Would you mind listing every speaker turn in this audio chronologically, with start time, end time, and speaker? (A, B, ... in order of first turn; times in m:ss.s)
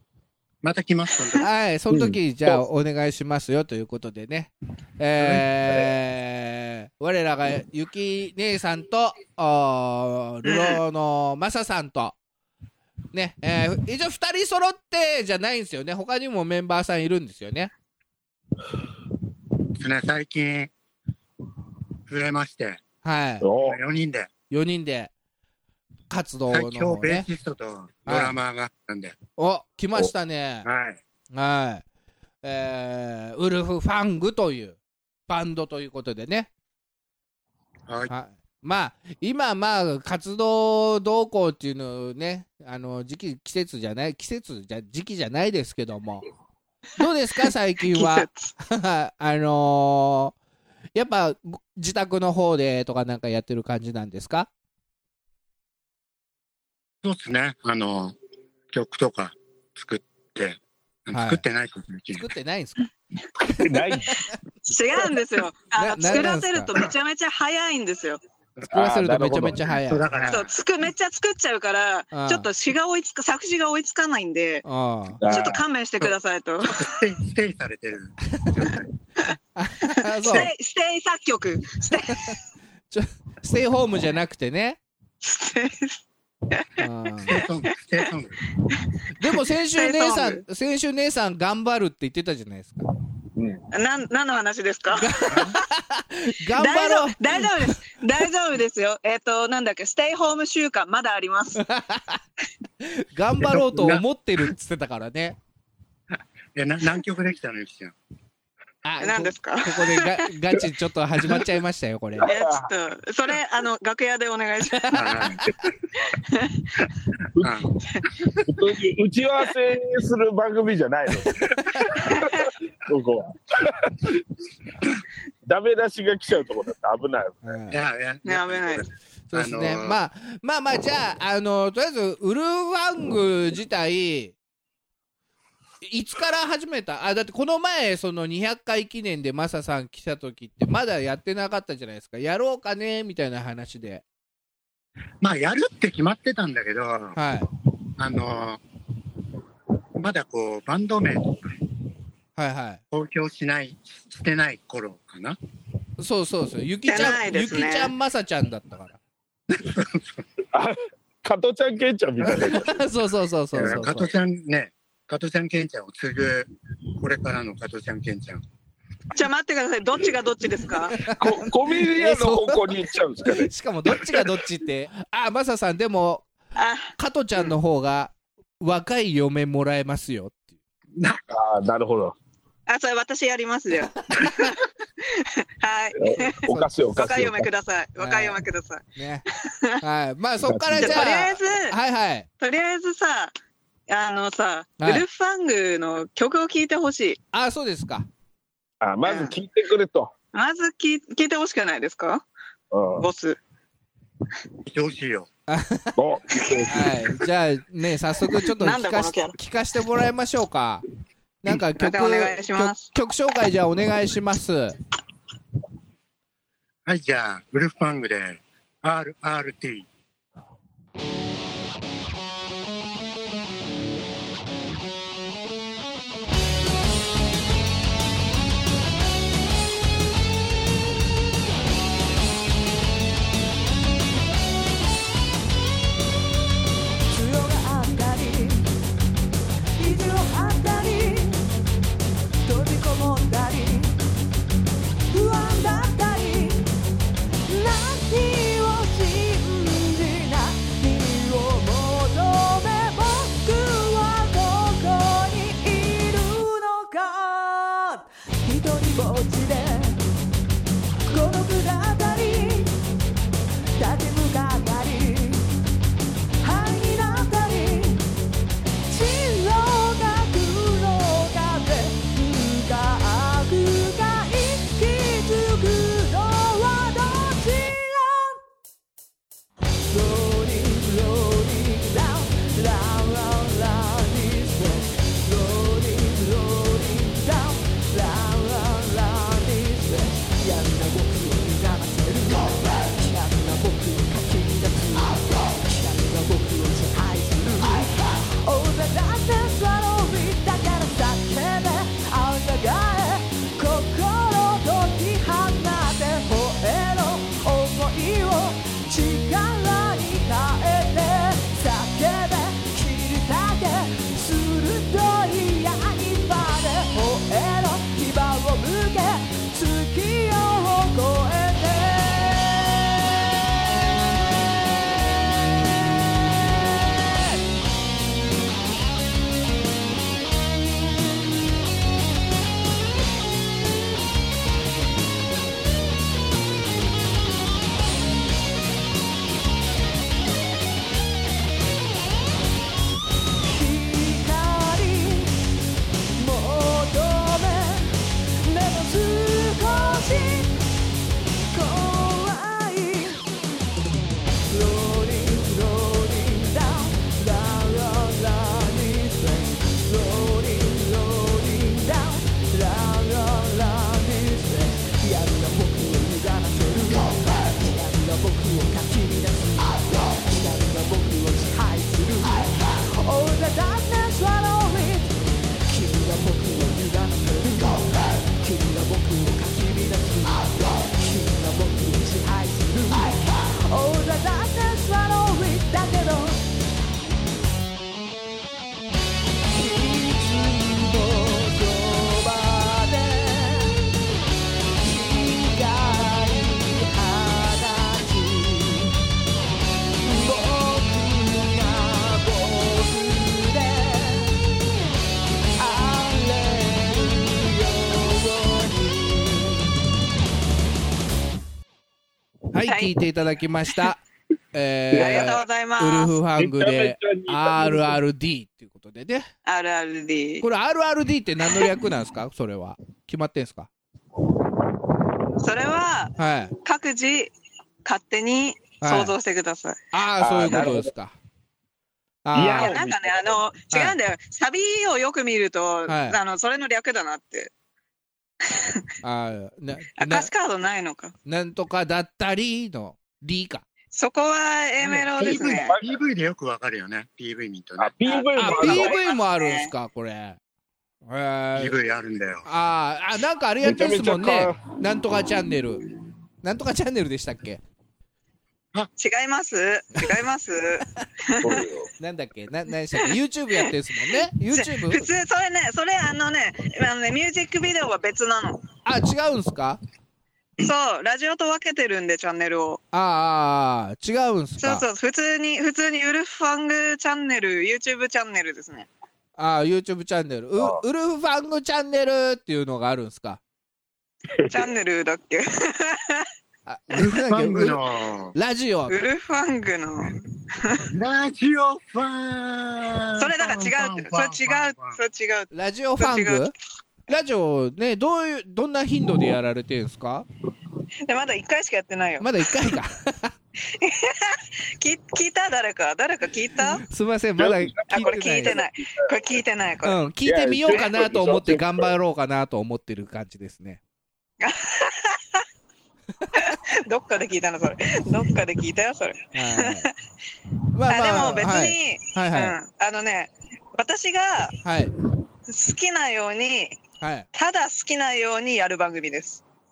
0:00.6-0:01.5 A
0:01.4-0:12.2 B
0:05.2-0:05.9 A
0:10.4-0:10.8 C
0:13.1-0:17.7 B
0:19.8-0:20.7 A
0:22.1-0:22.8 A
0:23.0-0:23.5 B
0:23.4-0:23.8 D
0:23.6-0:24.3 A
0:24.5-0:25.1 B
0:26.1-0:27.2 B
0:26.5-0:29.1 A
0:28.1-0:28.4 B
0:29.4-0:30.7 B
0:30.6-0:31.0 A
0:31.3-0:31.8 B
0:32.4-0:34.8 B
0:35.3-0:36.5 B
0:38.1-0:46.2 B
0:47.0-0:50.3 B
0:47.9-0:48.5 C
0:50.9-0:54.5 B
0:57.0-0:58.1 A
0:58.7-1:02.2 A
1:01.1-1:01.4 B
1:02.1-1:02.9 B
1:03.4-1:04.3 B
1:03.5-1:04.2 D
1:04.6-1:08.2 C
1:05.8-1:06.7 B
1:08.7-1:09.6 D
1:08.7-1:10.4 B
1:09.7-1:10.5 A
1:10.3-1:14.6 C
1:12.1-1:12.5 B
1:14.6-1:15.2 B
1:15.2-1:15.6 D
1:15.3-1:16.9 C
1:16.0-1:18.8 A
1:18.3-1:18.7 B
1:19.6-1:20.5 B
1:19.9-1:22.3 C
1:22.0-1:22.4 B
1:22.9-1:24.8 B
1:25.2-1:26.7 C
1:26.8-1:27.4 B
1:27.2-1:28.4 A
1:29.2-1:32.9 B
1:29.7-1:30.4 C
1:33.4-1:33.6 D
1:33.7-1:35.5 C
1:35.0-1:37.8 B
1:36.6-1:41.6 C
1:41.6-1:42.2 B
1:42.8-1:45.4 B
1:43.4-1:44.0 A
1:46.5-1:47.9 A
1:48.8-1:52.3 B
1:49.0-1:50.1 C
1:52.2-1:52.7 D
1:52.2-1:55.3 C
1:54.8-1:55.5 B
1:54.9-1:55.5 A
1:56.2-1:56.6 C
1:57.4-1:57.6 D
1:57.4-1:58.3 A
1:58.4-2:04.2 D
2:01.5-2:01.9 B
2:02.1-2:02.4 C
2:05.4-2:07.4 D
2:07.4-2:07.8 B
2:07.7-2:10.0 A
2:08.2-2:08.8 C
2:09.3-2:14.3 B
2:15.8-2:24.0 B
2:25.2-2:27.2 A
2:27.2-2:27.5 B
2:28.0-2:28.6 A
2:30.0-2:31.4 A
2:32.4-2:32.8 B
2:32.9-2:35.4 A
2:36.0-2:39.0 B
2:36.8-2:37.9 C
2:39.5-2:40.2 A
2:40.5-2:42.8 D
2:42.4-2:44.1 B
2:43.5-2:48.4 A
2:43.6-2:43.8 D
2:49.1-2:51.0 C
2:51.0-2:56.3 B
2:51.1-2:54.3 D
2:56.6-2:57.5 C
2:57.0-3:00.4 B
3:01.3-3:02.2 D
3:02.7-3:08.8 C
3:05.9-3:07.5 D
3:08.0-3:08.4 B
3:09.0-3:09.2 B
3:09.4-3:09.8 C
3:09.8-3:12.3 B
3:10.4-3:11.1 D
3:10.8-3:11.7 C
3:12.4-3:13.3 C
3:13.9-3:17.2 C
3:14.8-3:15.0 B
3:17.3-3:18.1 B
3:18.8-3:20.1 D
3:19.0-3:19.3 C
3:20.3-3:22.2 C
3:22.7-3:23.1 D
3:23.0-3:23.4 C
3:24.6-3:25.3 A
3:25.5-3:25.9 B
3:26.0-3:27.0 D
3:26.7-3:30.8 B
3:28.6-3:29.3 C
3:31.4-3:34.8 B
3:31.8-3:32.8 C
3:36.8-3:39.9 A
3:57.1-3:58.7 E
3:59.8-4:01.4 E
4:02.4-4:03.9 E
4:05.1-4:06.7 E
4:07.5-4:20.0 E
4:21.1-4:22.8 E
4:23.8-4:25.5 E
4:26.4-4:28.0 E
4:28.9-4:38.4 E
4:39.9-5:23.2 E
5:43.4-5:45.4 E
5:46.2-5:50.5 E
5:51.5-5:53.2 E
5:54.5-6:26.4 E
6:29.5-6:33.8 E
6:34.8-6:38.9 E
6:40.0-6:44.4 E
6:45.6-6:49.7 E
6:52.5-6:54.0 B
6:52.6-6:52.9 C
6:54.5-6:59.3 B
6:54.9-6:55.3 D
6:54.9-6:56.1 C
6:56.4-6:58.0 D
6:59.4-7:00.4 C
7:00.4-7:03.7 B
7:05.4-7:07.3 C
7:06.2-7:06.5 B
7:07.8-7:09.8 C
7:08.8-7:09.1 B
7:09.9-7:11.1 B
7:10.2-7:10.9 D
7:12.2-7:12.8 B
7:12.3-7:13.4 D
7:12.6-7:17.5 C
7:15.9-7:16.2 B
7:18.4-7:18.8 C
7:19.0-7:20.3 B
7:20.0-7:21.1 C
7:21.2-7:23.6 B
7:23.9-7:25.7 C
7:24.9-7:28.2 A
7:25.2-7:26.0 D
7:27.8-7:29.0 D
7:28.1-7:29.7 C
7:28.4-7:30.4 B
7:31.0-7:31.8 B
7:31.6-7:32.4 A
7:32.4-7:35.8 B
7:33.6-7:34.6 D
7:36.4-7:37.6 B
7:39.0-7:41.6 C
7:41.4-7:41.9 D
7:42.0-7:45.1 B
7:44.5-7:48.6 C
7:48.8-7:49.8 B
7:50.6-7:52.8 C
7:52.9-7:54.8 B
7:54.6-7:58.9 C
7:59.4-8:03.4 B
8:00.6-8:00.8 D
8:04.3-8:04.7 D
8:04.5-8:06.3 C
8:06.6-8:07.8 B
8:06.9-8:08.3 A
8:08.3-8:09.0 B
8:08.9-8:10.8 C
8:10.9-8:15.0 A
8:13.2-8:16.5 C
8:15.5-8:16.5 B
8:17.1-8:20.2 B
8:21.0-8:22.3 C
8:22.2-8:23.3 B
8:23.7-8:26.8 C
8:26.8-8:28.6 B
8:27.4-8:29.4 D
8:27.9-8:30.0 C
8:29.8-8:33.8 B
8:30.2-8:32.0 D
8:34.4-8:35.4 C
8:36.2-8:36.5 B
8:36.3-8:39.9 C
8:39.3-8:39.9 B
8:40.7-8:42.6 B
8:40.9-8:44.6 C
8:44.6-8:44.9 B
8:45.5-8:46.8 C
8:47.0-8:47.3 B
8:47.3-8:49.4 C